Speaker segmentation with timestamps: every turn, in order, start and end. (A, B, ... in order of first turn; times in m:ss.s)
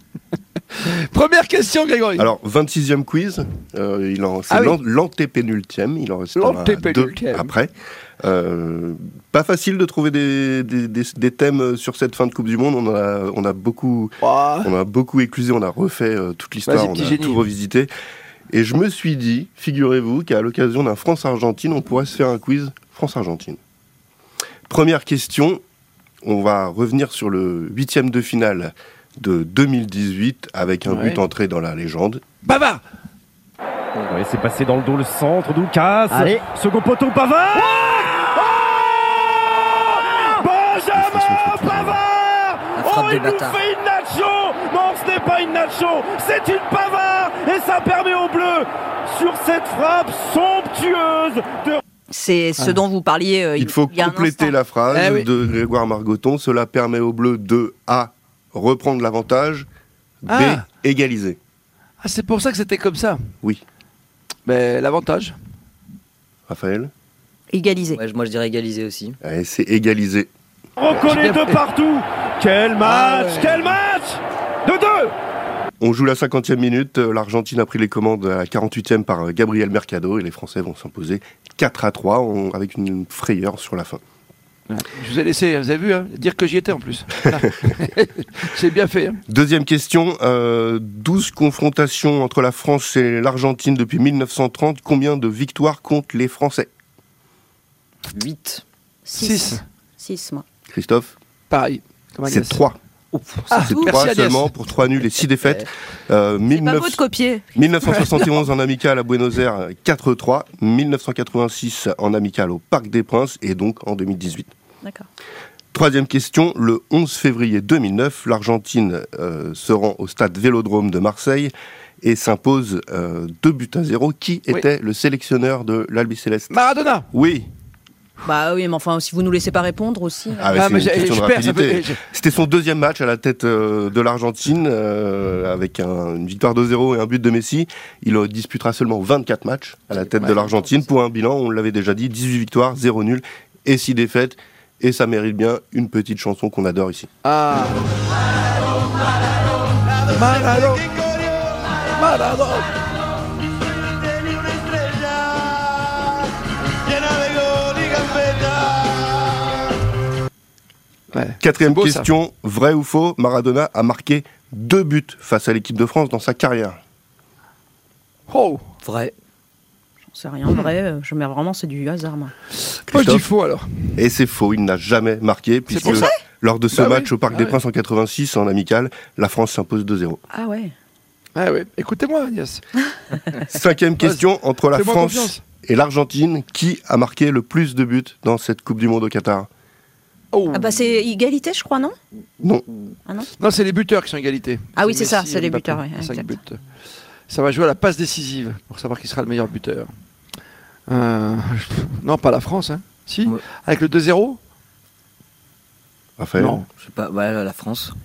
0:00.7-0:02.3 A
0:02.2-0:17.9 B
0:04.5-0:04.8 A
0:06.3-0:07.5 A
0:14.2-0:14.7 A
0:16.7-0:17.4 A
0:18.5-0:23.6 B
0:24.7-0:25.6 B
0:26.2-0:32.2 B
0:30.9-0:31.2 A
0:32.4-0:32.8 A
0:34.0-0:51.8 C
0:41.0-0:42.0 B
0:42.7-0:43.6 D
0:52.1-0:54.5 E
0:53.6-0:59.7 B
0:54.9-0:55.3 A
1:00.2-1:01.4 B
1:00.3-1:00.6 A
1:02.0-1:03.2 A
1:04.4-1:05.3 A
1:06.5-1:06.9 B
1:07.5-1:08.0 E
1:07.9-1:09.2 D
1:09.2-1:10.3 B
1:10.8-1:15.1 C
1:10.9-1:11.6 A
1:12.8-1:13.6 A
1:15.8-1:24.0 B
1:24.7-1:29.2 A
1:29.3-1:36.7 B
1:38.1-1:38.6 D
1:39.1-1:40.4 E
1:39.2-1:39.6 A
1:40.7-1:41.1 B
1:41.5-1:42.6 A
1:42.2-1:54.5 B
1:43.5-1:44.5 A
1:46.5-1:47.6 E
1:47.8-1:48.2 A
1:55.7-2:06.5 B
2:06.5-2:07.1 A
2:07.1-2:07.5 B
2:08.2-2:10.5 E
2:10.4-2:27.1 B
2:10.5-2:12.0 A
2:19.9-2:20.6 A
2:27.2-2:27.8 A
2:30.1-2:31.0 A
2:31.9-2:32.7 A
2:36.9-2:39.3 A
2:41.1-2:42.1 A
2:41.4-2:46.8 B
2:48.3-2:48.6 A
2:48.8-2:49.1 D
2:50.1-2:52.3 E
2:50.4-2:50.7 A
2:52.7-2:53.9 A
2:52.9-2:53.2 B
2:54.0-3:00.2 B
2:55.7-2:56.1 A
2:56.7-2:57.6 A
3:00.3-3:00.7 E
3:01.4-3:02.6 A
3:03.2-3:03.4 A
3:03.5-3:09.5 B
3:04.0-3:05.4 A
3:10.3-3:10.8 A
3:10.5-3:11.9 E
3:13.4-3:16.6 A
3:14.9-3:16.3 E
3:17.3-3:19.9 A
3:20.9-3:24.4 A
3:26.2-3:26.6 B
3:26.4-3:26.6 A
3:26.8-3:27.9 D